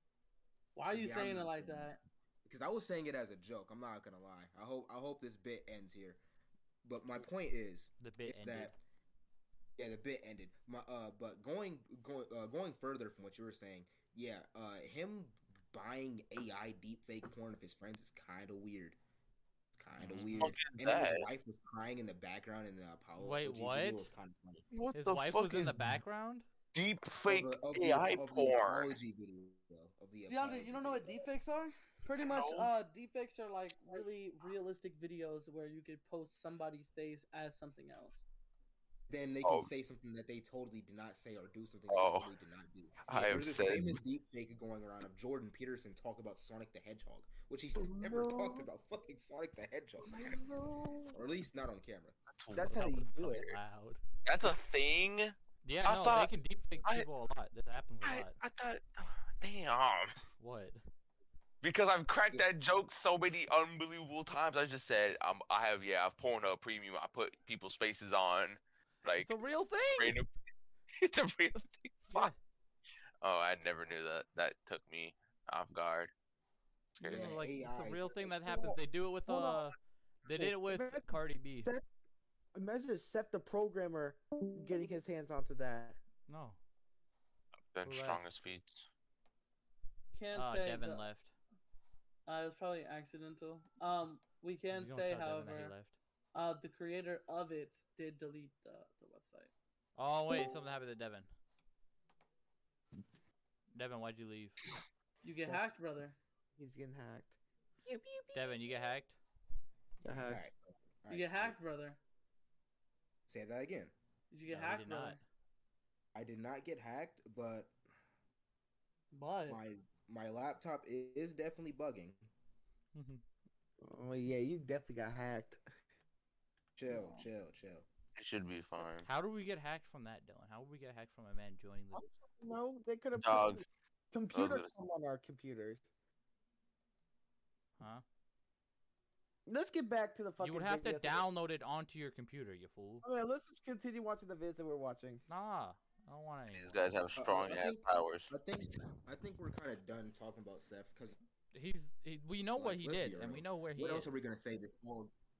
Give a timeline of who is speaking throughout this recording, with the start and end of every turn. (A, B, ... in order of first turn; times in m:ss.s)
0:00.7-0:02.0 A
0:00.9-0:06.2 B
0:06.8-0:08.8 B
0:08.0-0:08.7 C
0:09.8-0:19.0 B
0:19.7-0:24.6 B
0:20.0-0:21.3 D
0:23.2-0:24.1 C
0:24.7-0:25.8 D
0:24.9-0:26.4 C
0:26.7-0:28.9 D
0:27.2-0:31.2 B
0:30.3-0:38.2 A
0:32.2-0:32.7 D
0:39.1-0:50.3 B
0:39.4-0:39.7 D
0:41.9-0:42.3 D
0:43.0-0:44.0 D
0:47.8-0:48.6 E
0:50.1-0:51.1 E
0:51.1-0:52.2 B
0:52.4-0:53.3 D
0:52.5-0:53.5 E
0:52.5-0:54.0 C
0:54.2-0:57.1 D
0:55.6-0:58.4 C
0:58.0-1:00.2 D
1:00.4-1:00.8 C
1:01.6-1:09.3 D
1:09.2-1:10.2 C
1:10.0-1:10.3 D
1:11.0-1:12.3 D
1:12.1-1:12.4 C
1:13.2-1:16.1 D
1:17.0-1:21.7 C
1:17.0-1:17.4 D
1:17.1-1:18.5 B
1:18.4-1:19.7 E
1:20.3-1:21.1 E
1:22.5-1:26.0 E
1:26.3-1:26.6 C
1:27.7-1:28.8 D
1:27.8-1:28.3 C
1:30.1-1:31.1 A
1:30.3-1:31.3 C
1:32.2-1:35.7 A
1:34.7-1:36.0 C
1:36.3-1:39.5 A
1:40.0-1:41.3 C
1:43.7-1:44.6 C
1:45.2-1:46.2 A
1:46.6-1:48.6 E
1:48.3-1:49.2 C
1:50.0-1:50.4 E
1:50.2-1:51.6 B
1:51.1-1:52.0 A
1:53.3-1:53.9 B
1:54.3-1:55.2 A
1:54.5-1:55.2 C
1:56.1-1:57.7 B
1:59.1-1:59.6 A
1:59.4-2:02.3 B
2:02.9-2:03.2 C
2:03.8-2:05.6 E
2:06.8-2:07.9 B
2:08.2-2:09.1 D
2:09.0-2:12.0 C
2:11.9-2:15.8 E
2:13.2-2:13.6 D
2:14.3-2:14.7 D
2:19.4-2:21.3 E
2:20.4-2:23.0 C
2:23.0-2:25.2 E
2:25.3-2:26.8 C
2:26.5-2:28.3 D
2:27.2-2:31.2 B
2:31.5-2:34.2 C
2:32.5-2:35.1 B